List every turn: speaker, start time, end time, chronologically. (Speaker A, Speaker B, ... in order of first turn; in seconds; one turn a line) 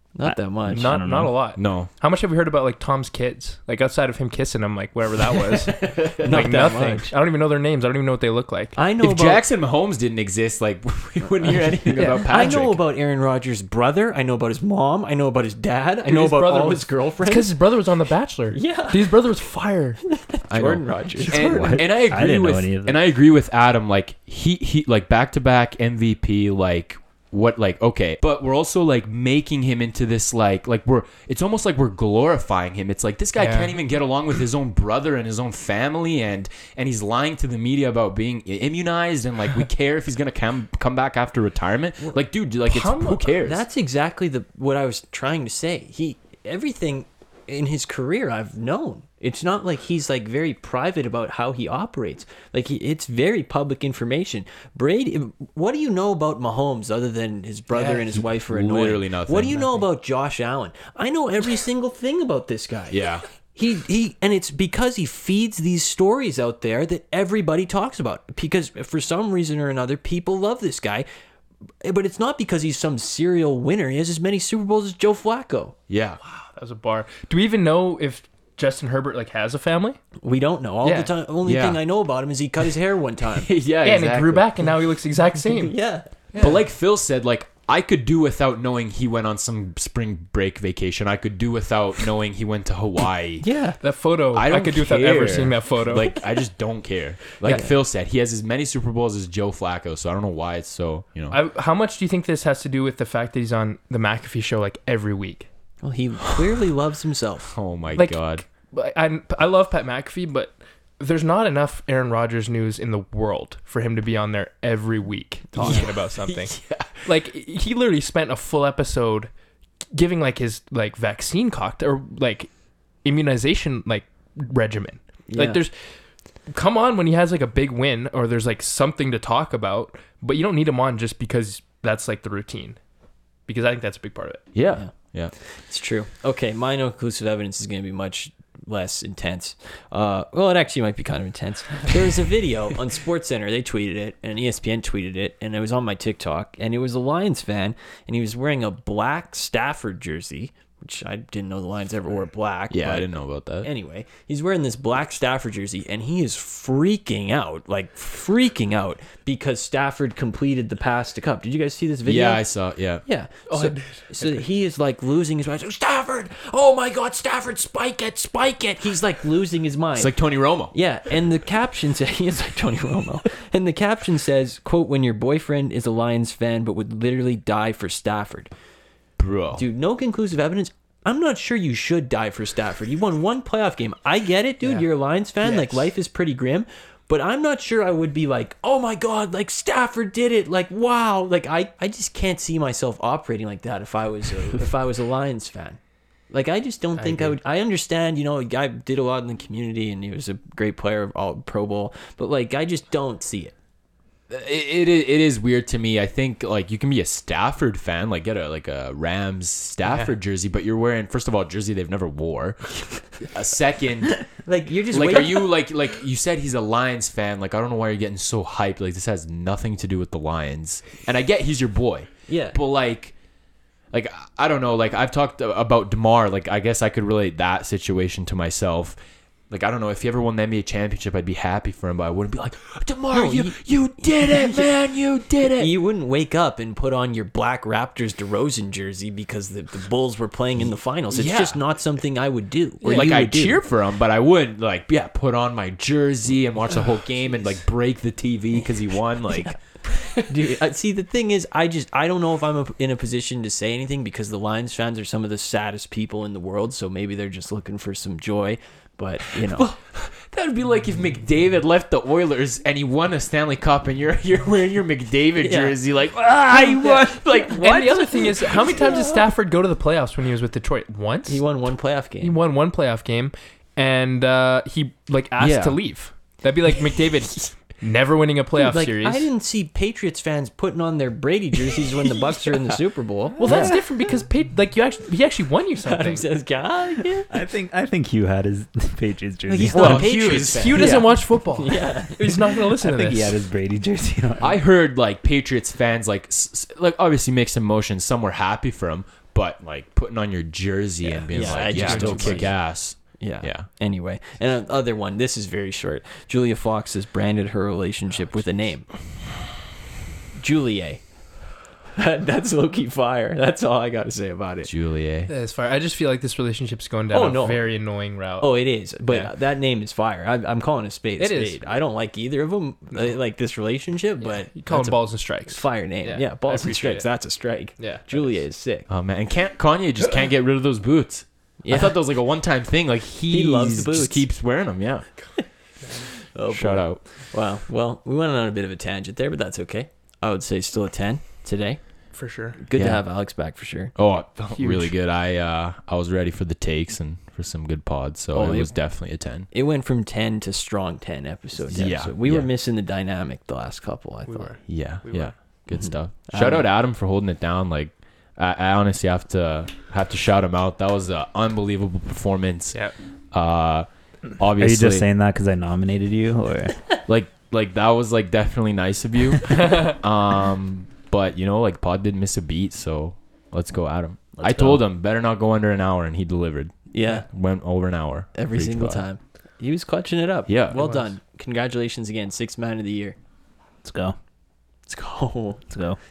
Speaker A: 0.1-0.9
Speaker B: 0.2-1.4
Speaker C: 0.7-8.8
Speaker D: 1.6-1.9
Speaker A: 5.8-7.1
Speaker A: 8.8-9.4
Speaker D: 9.0-12.8
Speaker A: 11.4-17.5
Speaker C: 11.9-12.5
Speaker C: 16.0-20.0
Speaker A: 18.5-19.2
Speaker A: 20.1-21.9
Speaker D: 20.5-43.6
Speaker B: 21.3-23.0
Speaker C: 33.4-33.8
Speaker C: 42.6-43.3
Speaker A: 43.4-71.0
Speaker D: 57.8-59.7
Speaker D: 62.9-63.2
Speaker A: 71.8-75.7
Speaker D: 75.9-76.2
Speaker C: 76.2-80.0
Speaker A: 80.2-83.5
Speaker C: 80.8-81.1
Speaker D: 81.4-81.8
Speaker D: 83.4-84.5
Speaker C: 83.8-85.7
Speaker A: 85.5-86.1
Speaker C: 86.3-86.6
Speaker D: 86.4-93.5
Speaker A: 93.4-93.8
Speaker C: 93.8-96.1
Speaker D: 94.3-101.4
Speaker C: 101.3-105.5
Speaker A: 105.8-107.5
Speaker D: 107.5-108.4
Speaker C: 108.0-119.3
Speaker D: 115.6-117.0
Speaker A: 115.6-115.9
Speaker C: 119.9-122.5
Speaker C: 123.0-125.7
Speaker A: 125.3-125.6
Speaker C: 126.5-132.8
Speaker C: 133.5-134.4
Speaker D: 134.5-135.3
Speaker A: 134.7-162.5
Speaker D: 152.7-153.7
Speaker D: 162.0-163.0
Speaker A: 163.0-170.1
Speaker C: 163.5-164.4
Speaker D: 169.9-170.7
Speaker A: 170.7-178.5
Speaker D: 179.2-179.6
Speaker A: 179.5-195.8
Speaker C: 185.4-185.7
Speaker A: 196.3-203.5
Speaker C: 197.0-197.3
Speaker D: 204.3-214.2
Speaker C: 209.8-210.1
Speaker A: 214.1-215.5
Speaker D: 214.9-223.1
Speaker A: 222.3-222.6
Speaker D: 223.9-229.0
Speaker D: 229.5-235.7
Speaker A: 233.1-233.6
Speaker A: 234.2-234.7
Speaker A: 235.6-243.6
Speaker D: 241.1-241.6
Speaker C: 242.8-243.1
Speaker D: 242.8-249.8
Speaker A: 249.3-259.7
Speaker D: 259.4-268.7
Speaker A: 265.4-265.7
Speaker A: 266.5-267.2
Speaker C: 267.3-271.4
Speaker A: 271.3-272.4
Speaker C: 272.2-279.3
Speaker D: 275.4-275.8
Speaker A: 278.6-283.4
Speaker C: 283.4-286.3
Speaker B: 283.4-283.8
Speaker A: 285.8-287.3
Speaker B: 287.3-290.1
Speaker A: 289.5-292.4
Speaker D: 289.7-291.0
Speaker C: 289.7-293.4
Speaker B: 292.8-294.6
Speaker D: 294.4-303.7
Speaker A: 301.0-308.9
Speaker C: 301.4-302.5
Speaker A: 310.4-311.1
Speaker A: 311.9-314.7
Speaker D: 314.6-315.3
Speaker C: 315.3-319.3
Speaker A: 317.1-317.7
Speaker A: 318.4-328.9
Speaker C: 321.2-321.6
Speaker C: 324.2-327.1
Speaker C: 327.8-328.4
Speaker D: 328.9-335.1
Speaker A: 331.6-332.0
Speaker A: 333.3-334.2
Speaker A: 335.4-341.8
Speaker D: 336.5-337.0
Speaker C: 342.1-342.6
Speaker A: 342.6-343.9
Speaker D: 342.8-343.0
Speaker D: 343.9-349.5
Speaker C: 344.6-344.9
Speaker A: 348.3-348.9
Speaker A: 349.5-354.5
Speaker D: 351.7-352.5
Speaker C: 354.3-355.3
Speaker D: 354.7-363.9
Speaker A: 355.7-356.6
Speaker D: 364.4-365.0
Speaker B: 364.6-366.8
Speaker D: 367.1-379.0
Speaker A: 374.4-374.8
Speaker A: 376.9-377.2
Speaker A: 378.3-383.1
Speaker D: 380.5-380.8
Speaker C: 380.7-381.1
Speaker B: 383.8-384.1
Speaker A: 384.9-385.6
Speaker B: 385.7-386.0